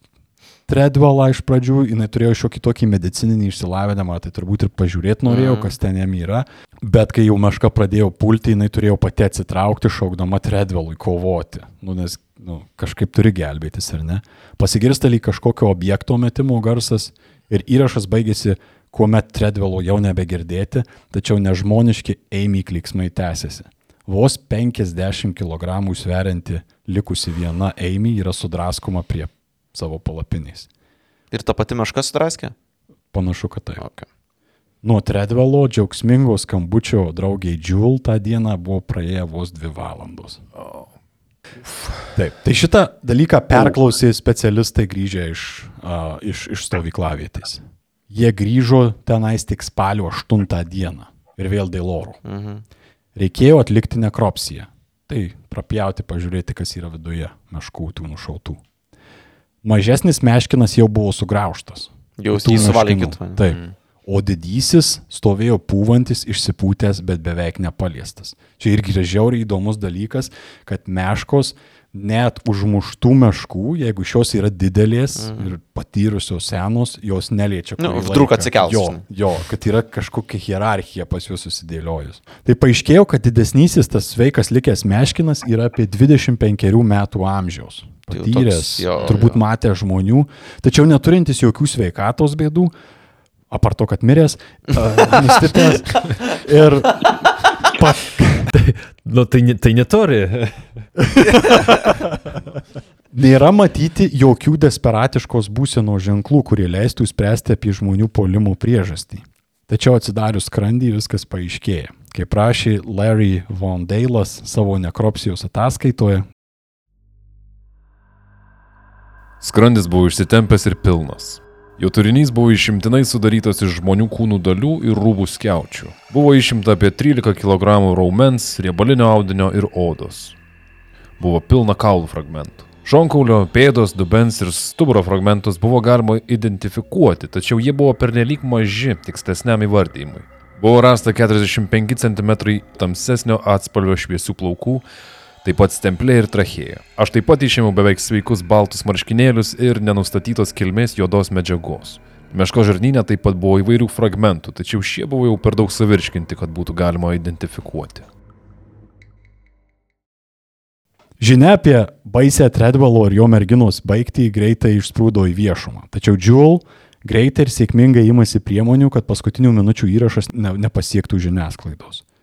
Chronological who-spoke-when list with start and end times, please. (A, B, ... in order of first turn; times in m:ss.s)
0:00.7-0:30.7 A
0:05.3-0:05.7 B
0:31.3-0:32.5 B
0:33.1-0:33.8 A
0:33.8-0:34.0 B
0:34.8-0:40.4 A
0:40.6-0:40.9 C
0:41.6-0:42.1 C
0:42.2-0:52.2 A
0:52.2-0:52.6 B
0:53.2-0:58.6 A
0:59.6-1:32.7 A
1:02.2-1:03.4 B
1:03.4-1:03.7 C
1:15.2-1:15.5 B
1:17.8-1:19.0 B
1:28.1-1:29.4 B
1:33.5-1:38.5 A
1:38.5-1:40.6 D
1:41.0-1:41.6 A
1:41.2-1:41.9 B
1:43.1-1:56.2 A
1:59.4-2:10.3 C
2:11.2-2:24.8 C
2:25.4-2:38.0 C
2:41.2-2:52.0 A